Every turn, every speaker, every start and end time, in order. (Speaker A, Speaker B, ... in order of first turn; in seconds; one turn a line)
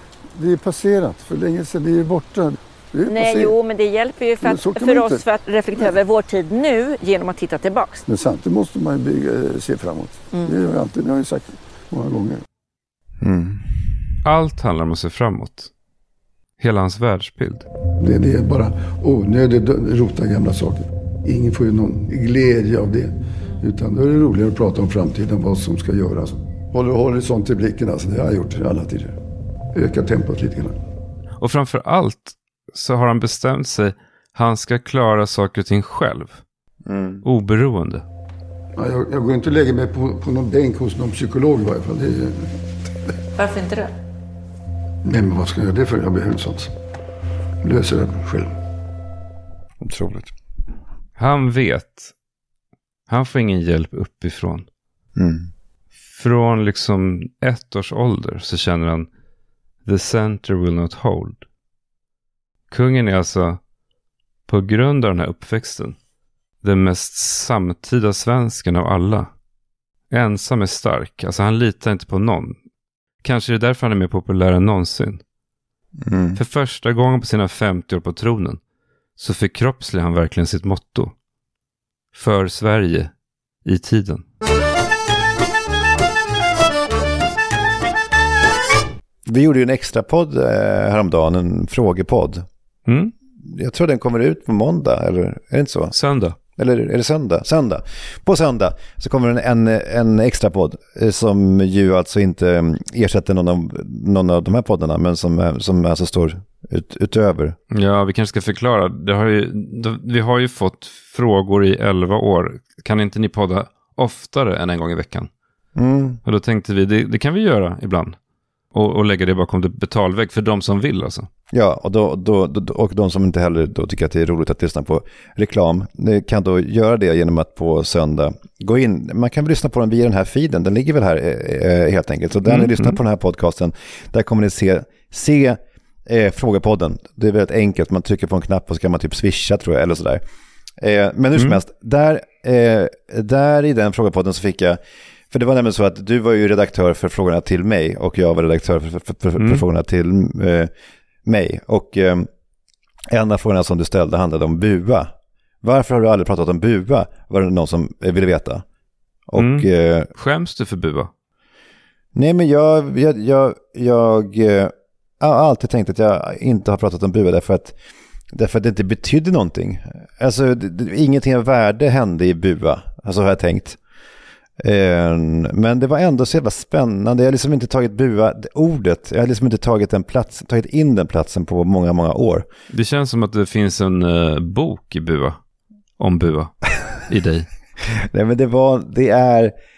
Speaker A: 0.3-3.5
Speaker B: 3.1-8.0
Speaker A: 4.4-5.2
Speaker A: 8.1-12.4
Speaker C: 13.2-13.6
Speaker D: 14.2-15.7
Speaker D: 16.6-17.6
Speaker A: 18.0-29.1
Speaker A: 29.7-30.8
Speaker D: 31.4-36.4
Speaker C: 36.9-37.2
Speaker D: 37.2-38.0
Speaker A: 38.7-42.6
Speaker B: 43.3-43.9
Speaker A: 45.0-46.7
Speaker A: 47.6-48.5
Speaker C: 49.8-50.3
Speaker D: 51.2-52.1
Speaker D: 53.1-54.6
Speaker C: 55.1-55.5
Speaker D: 56.1-59.1
Speaker D: 59.8-61.4
Speaker D: 62.7-63.6
Speaker D: 64.5-66.0
Speaker D: 66.6-69.3
Speaker D: 70.1-72.6
Speaker D: 73.2-75.2
Speaker C: 76.0-76.4
Speaker D: 76.3-78.6
Speaker D: 79.2-81.1
Speaker D: 82.1-83.1
Speaker D: 83.6-84.2
Speaker C: 89.2-92.5
Speaker D: 92.8-93.1
Speaker C: 93.4-107.5
Speaker D: 95.9-96.3
Speaker D: 107.7-115.3
Speaker C: 115.7-116.2
Speaker D: 116.2-118.2
Speaker D: 118.7-121.3
Speaker C: 121.5-140.2
Speaker D: 132.4-133.0
Speaker C: 140.8-144.8
Speaker C: 145.3-150.7
Speaker D: 149.4-149.6
Speaker C: 151.2-152.3
Speaker C: 153.1-158.6
Speaker C: 159.3-160.1
Speaker D: 159.3-161.1
Speaker C: 162.1-167.7
Speaker C: 168.3-173.8
Speaker C: 174.6-182.4
Speaker D: 182.7-185.4
Speaker D: 186.0-187.5
Speaker C: 187.9-189.5